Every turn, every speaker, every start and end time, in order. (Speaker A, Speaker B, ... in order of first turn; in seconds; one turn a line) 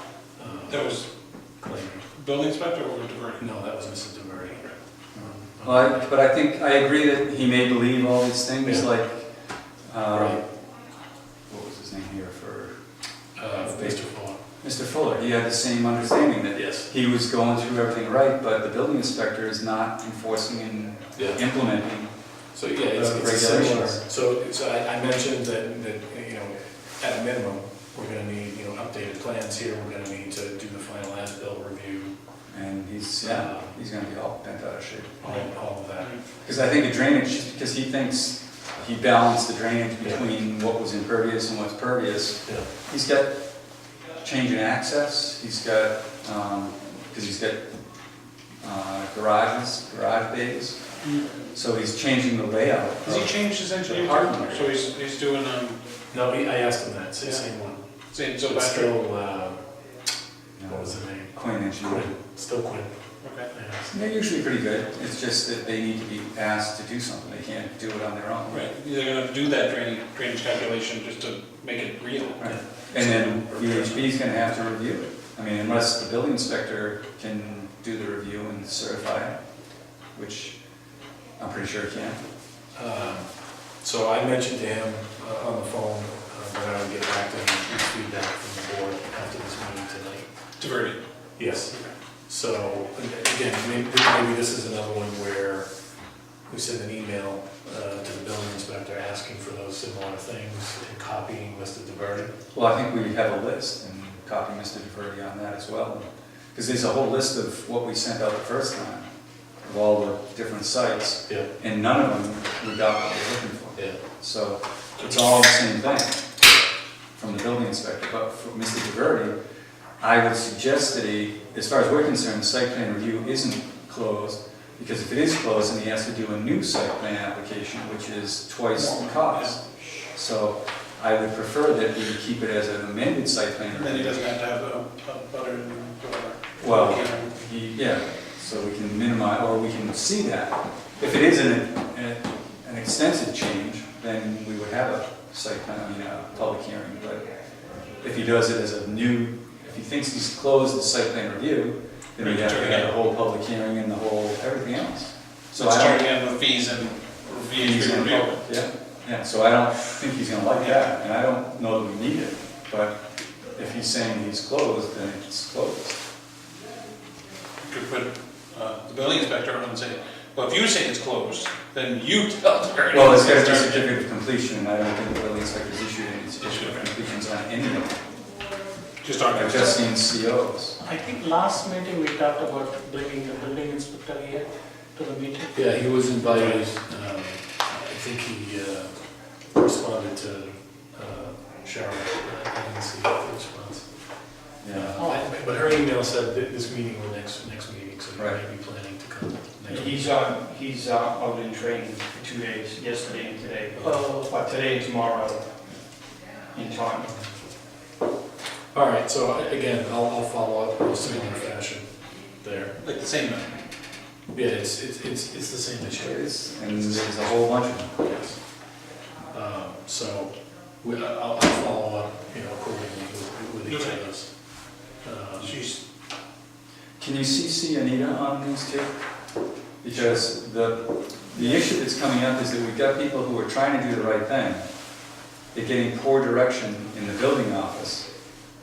Speaker A: 0.4-1.0
Speaker B: 0.7-1.1
Speaker A: 1.6-2.1
Speaker B: 2.1-3.5
Speaker A: 3.4-5.9
Speaker C: 5.2-9.3
Speaker C: 9.8-10.4
Speaker A: 10.1-10.4
Speaker C: 11.5-12.8
Speaker A: 13.3-14.4
Speaker C: 13.5-14.1
Speaker C: 14.6-22.1
Speaker A: 16.5-16.9
Speaker A: 21.1-21.4
Speaker A: 22.5-32.1
Speaker C: 22.9-24.0
Speaker C: 32.5-35.4
Speaker A: 33.2-33.8
Speaker A: 35.2-36.2
Speaker C: 36.4-43.4
Speaker C: 44.2-47.8
Speaker C: 48.6-50.8
Speaker B: 51.0-51.3
Speaker C: 51.5-54.7
Speaker B: 53.0-55.8
Speaker A: 56.1-57.8
Speaker B: 58.1-58.9
Speaker A: 58.5-59.6
Speaker C: 60.6-62.1
Speaker A: 60.7-62.9
Speaker B: 63.2-63.5
Speaker A: 63.5-63.9
Speaker C: 63.9-68.7
Speaker B: 68.5-72.4
Speaker C: 72.4-79.4
Speaker A: 72.4-74.1
Speaker C: 80.1-80.6
Speaker C: 81.4-82.2
Speaker A: 82.7-83.3
Speaker A: 83.8-90.3
Speaker B: 90.6-91.0
Speaker A: 91.4-95.7
Speaker A: 96.5-102.3
Speaker C: 102.5-109.1
Speaker C: 109.6-116.3
Speaker A: 111.3-111.5
Speaker C: 117.2-119.3
Speaker C: 120.0-129.6
Speaker B: 128.7-129.6
Speaker C: 130.1-134.2
Speaker B: 133.7-137.3
Speaker C: 136.6-147.2
Speaker C: 148.0-156.1
Speaker B: 152.2-152.9
Speaker B: 155.6-158.4
Speaker C: 157.6-163.0
Speaker C: 163.5-166.0
Speaker B: 167.6-173.9
Speaker C: 172.9-178.0
Speaker B: 176.4-176.9
Speaker B: 179.0-179.8
Speaker C: 179.3-180.8
Speaker D: 180.8-185.5
Speaker A: 185.5-193.9
Speaker C: 194.6-194.9
Speaker A: 194.7-200.1
Speaker D: 194.9-195.8
Speaker E: 199.7-205.5
Speaker D: 203.8-204.3
Speaker E: 206.5-207.1
Speaker A: 208.7-212.8
Speaker B: 212.8-213.6
Speaker A: 214.3-216.2
Speaker C: 216.0-218.0
Speaker A: 218.0-218.4
Speaker A: 219.3-224.3
Speaker B: 223.6-224.0
Speaker A: 225.0-225.6
Speaker B: 225.4-225.8
Speaker C: 227.0-229.0
Speaker C: 229.8-234.7
Speaker C: 235.5-238.1